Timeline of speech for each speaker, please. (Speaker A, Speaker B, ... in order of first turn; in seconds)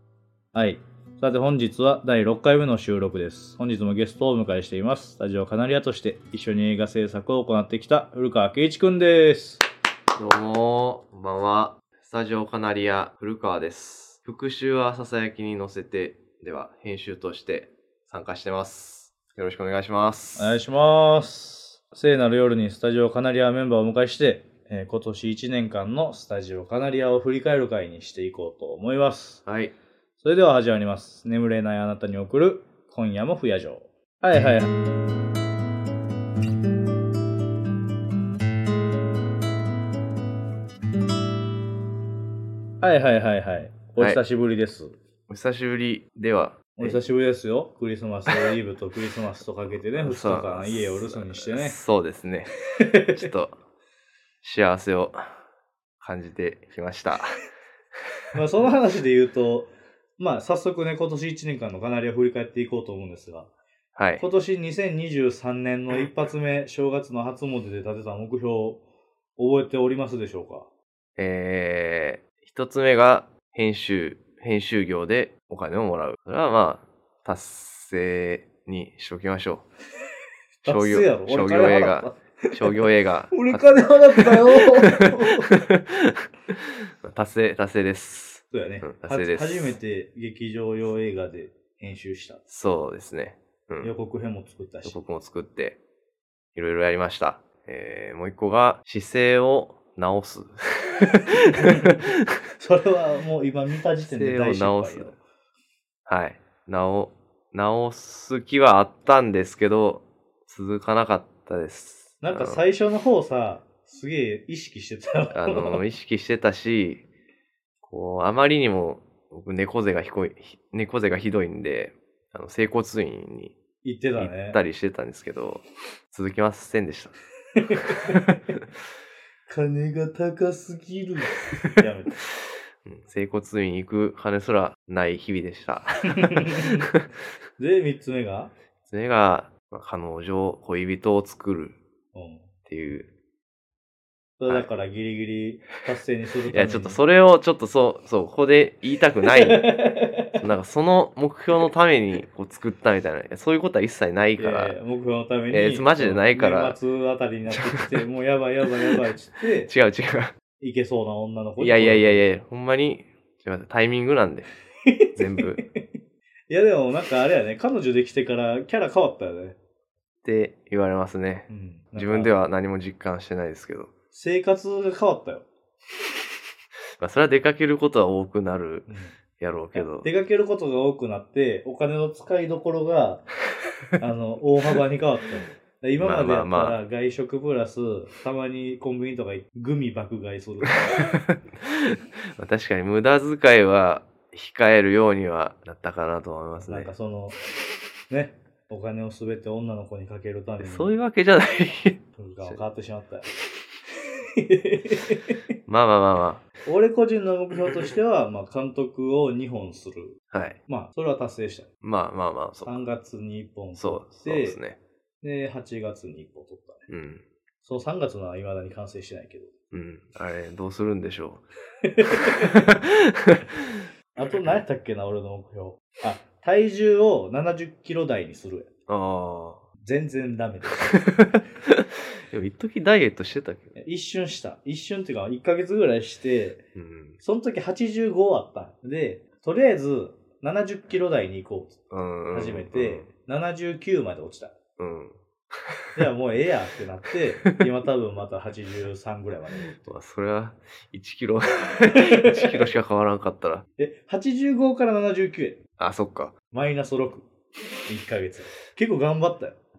Speaker A: 0.5-9.6, 20.4-29.4, 30.2-34.7, 42.8-44.9, 46.8-51.8, 52.7-53.2, 58.3-63.5, 64.2-68.8, 69.4-70.7, 80.6-85.6, 88.5-92.4, 93.8-95.0, 101.3-102.0, 102.6-105.2, 112.2-115.8, 123.8-124.6, 127.6-128.3, 129.5-132.1, 136.2-136.9, 137.6-138.5, 142.1-142.5, 144.4-147.0, 149.2-150.3, 154.4-159.7, 160.6-162.3, 164.8-165.8, 166.5-169.6, 171.5-172.3, 174.1-175.4, 178.9-179.1, 179.7-183.3, 184.0-191.1, 196.7-197.4, 198.1-200.9, 202.2-203.3, 204.3-205.3, 206.7-211.7, 212.6-214.6, 215.2-216.9, 217.6-219.5, 221.8-222.6, 224.1-228.7, 229.8-231.0, 233.8-236.6, 237.2-241.8, 242.3-244.6, 245.9-249.8, 251.9-252.6, 253.8-255.6, 256.5-257.3, 257.9-259.6
Speaker B: 10.1-20.6, 29.4-29.7, 45.3-47.0, 50.0-52.5, 53.1-53.5, 54.4-55.3, 56.0-57.4, 63.9-64.2, 71.2-79.7, 80.7-89.8, 92.5-93.9, 94.8-95.8, 96.5-102.1, 104.0-105.1, 106.0-112.6, 115.3-117.0, 117.8-123.5, 124.2-127.1, 127.9-128.2, 132.8-136.7, 138.8-141.8, 142.7-143.1, 146.5-149.7, 150.4-154.8, 155.5-156.8, 157.7-158.0, 159.6-160.3, 161.6-164.5, 165.2-165.6, 170.2-173.9, 177.0-178.9, 179.4-180.1, 186.0-186.8, 191.0-196.9, 200.6-202.6, 205.7-206.4, 210.3-210.6, 211.8-212.8, 213.8-214.8, 216.9-217.2, 219.7-221.4, 222.2-223.8, 228.9-229.7, 230.9-233.8, 236.7-237.2, 241.9-243.1, 244.8-246.0, 249.7-253.7, 255.8-256.3